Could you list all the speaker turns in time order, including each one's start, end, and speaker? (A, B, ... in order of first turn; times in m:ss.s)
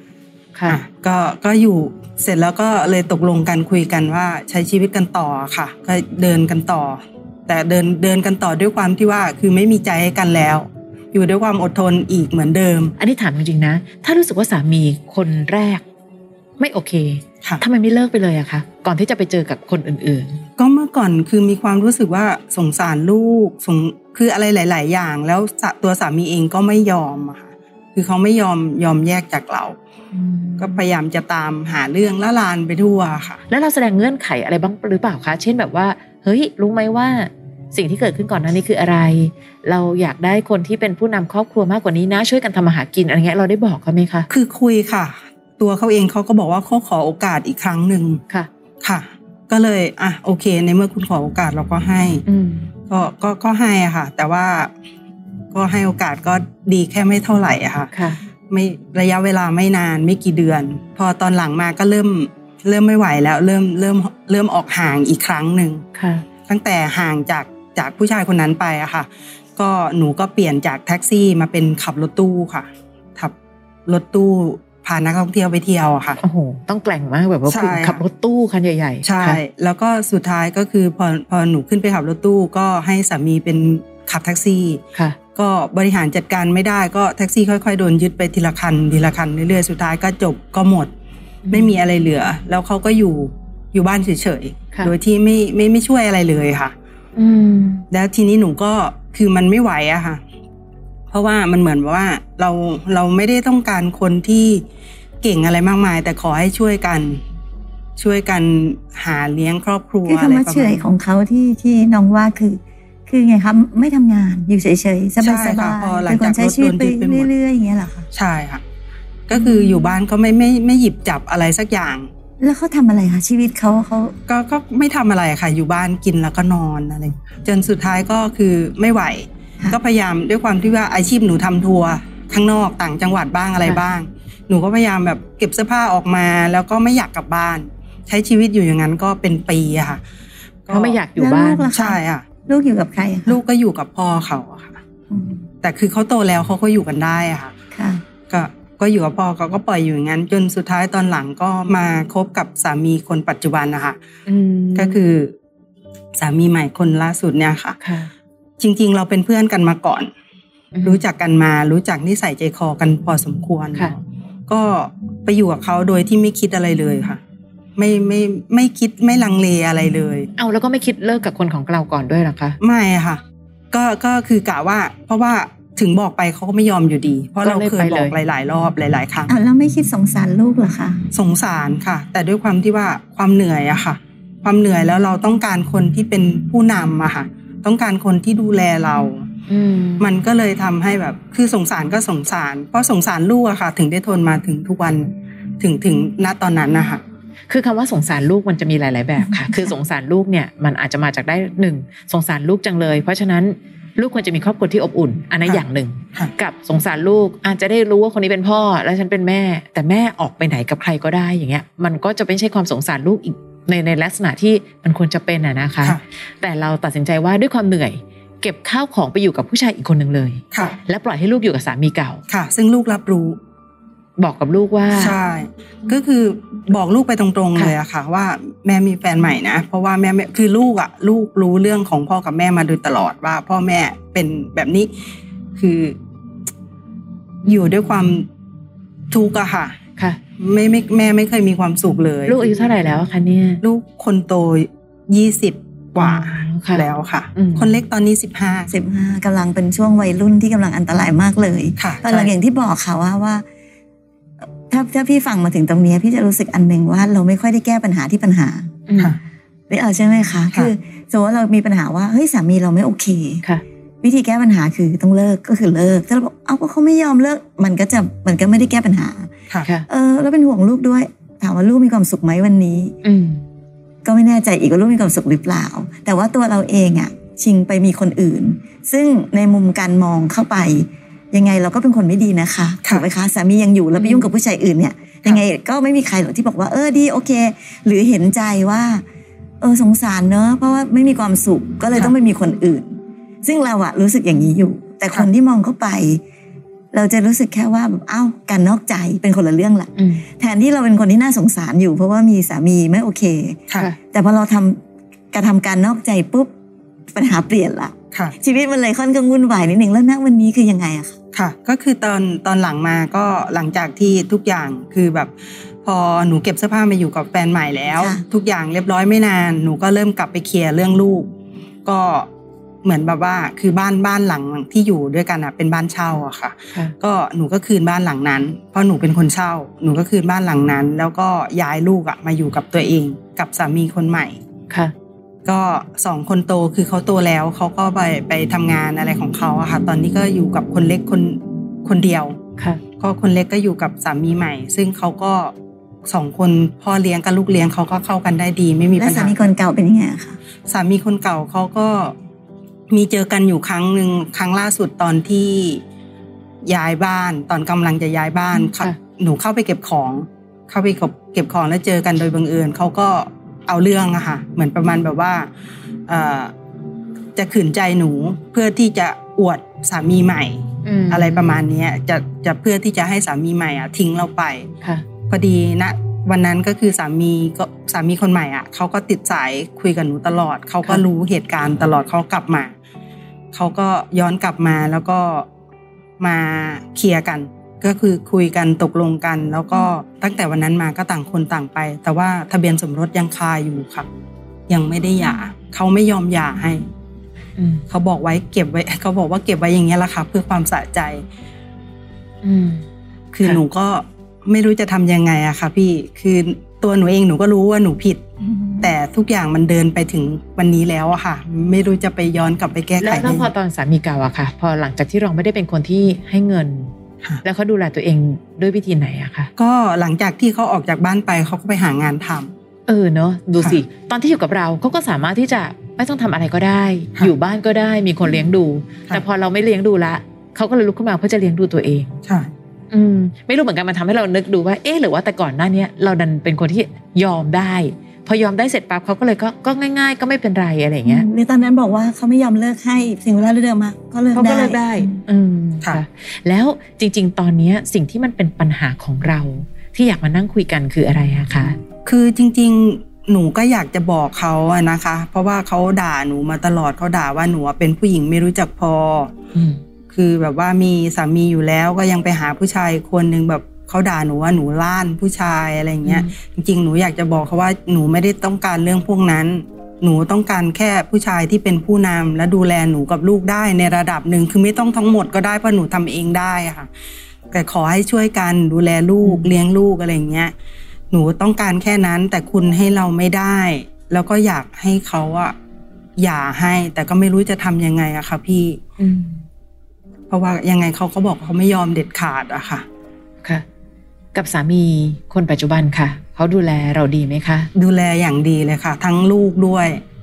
0:00.5-0:00.8 A
0:00.7-0:12.9 B
0:13.0-0:15.8 A
0:16.6-0:20.4 A
0:20.6-0:29.8 B
0:30.1-0:30.8 A
0:30.6-0:33.4 B
0:33.5-0:44.3 A
0:44.3-0:48.2 B
0:48.8-0:52.2 B
0:52.3-0:52.7 A
0:52.9-0:54.7 B
0:55.5-0:57.9 B
0:57.9-0:58.2 A
0:58.5-1:05.8 B
1:05.9-1:06.2 A
1:06.5-1:13.3 B
1:13.8-1:16.2 B
1:16.2-1:19.4 A
1:17.4-1:18.0 B
1:19.0-1:24.8 B
1:25.3-1:30.9 B
1:31.5-1:31.7 A
1:31.5-1:36.7 B
1:37.2-1:37.8 A
1:37.9-1:40.2 B
1:41.1-1:44.6 B
1:45.2-1:47.2 B
1:48.0-1:50.9 B
1:50.0-1:58.1 C
1:55.2-1:57.3 B
1:58.1-1:58.6 B
1:59.3-2:02.1 B
1:59.3-1:59.6 C
2:02.4-2:04.2 C
2:04.3-2:20.0 B
2:20.6-2:21.0 B
2:20.7-2:21.7 A
2:21.2-2:23.4 C
2:21.7-2:22.2 B
2:23.3-2:24.8 B
2:25.1-2:25.4 C
2:25.6-2:27.5 B
2:27.7-2:28.0 C
2:28.3-2:34.0 B
2:34.3-2:35.0 A
2:34.8-2:35.3 B
2:36.2-2:37.8 B
2:37.8-2:38.1 A
2:38.6-2:40.1 B
2:40.7-2:41.0 A
2:40.8-2:43.9 B
2:44.5-2:47.2 B
2:47.8-2:50.3 B
2:50.4-2:52.6 A
2:52.6-2:53.2 B
2:53.7-2:59.3 B
2:57.4-2:58.2 A
2:59.3-3:01.0 C
3:01.1-3:09.2 B
3:09.5-3:10.1 A
3:10.0-3:17.0 B
3:17.5-3:42.2 A
3:19.2-3:19.7 C
3:42.3-3:43.4 B
3:44.2-3:45.2 A
3:44.9-3:54.9 B
3:55.6-3:56.0 B
3:57.4-3:58.3 B
3:59.1-3:59.8 B
4:00.4-4:02.4 B
4:02.2-4:03.6 A
4:03.6-4:08.7 B
4:06.0-4:07.7 A
4:08.7-4:13.4 C
4:11.8-4:12.3 B
4:14.7-4:18.7 C
4:18.9-4:19.2 A
4:19.7-4:23.4 C
4:24.0-4:29.3 C
4:29.9-4:33.0 C
4:33.0-4:33.4 A
4:34.0-4:49.0 C
4:44.0-4:44.3 A
4:49.6-4:56.2 C
4:56.9-5:04.8 C
5:00.0-5:00.2 A
5:05.3-5:06.5 C
5:07.1-5:11.2 C
5:11.3-5:15.3 B
5:15.8-5:21.3 B
5:18.0-5:18.2 C
5:21.8-5:22.3 B
5:22.8-5:34.4 B
5:34.7-5:34.9 A
5:35.4-5:42.4 B
5:43.0-5:45.5 B
5:46.1-5:49.4 B
5:49.0-5:50.4 C
5:50.7-5:52.1 B
5:52.9-5:55.8 B
5:56.6-6:05.5 B
6:06.1-6:06.5 B
6:07.4-6:14.7 B
6:10.8-6:11.5 A
6:15.3-6:22.7 B
6:23.5-6:25.5 B
6:26.2-6:34.1 B
6:34.7-6:36.8 B
6:37.6-6:37.8 A
6:37.9-6:41.2 B
6:42.4-6:42.8 A
6:43.3-6:48.2 B
6:48.5-6:48.9 C
6:48.8-6:53.5 B
6:53.0-6:56.9 A
6:57.4-6:59.5 A
6:59.6-7:02.5 B
7:02.9-7:12.1 A
7:12.2-7:12.5 B
7:12.9-7:21.3 A
7:21.0-7:25.2 C
7:24.3-7:31.8 A
7:32.0-7:39.3 B
7:39.5-7:39.8 A
7:40.1-7:56.9 B
7:46.0-7:46.3 A
7:57.5-8:00.5 B
7:59.2-7:59.5 A
8:01.1-8:05.5 B
8:06.2-8:08.8 B
8:09.0-8:09.4 A
8:10.3-8:12.8 B
8:14.3-8:17.7 A
8:17.7-8:20.0 B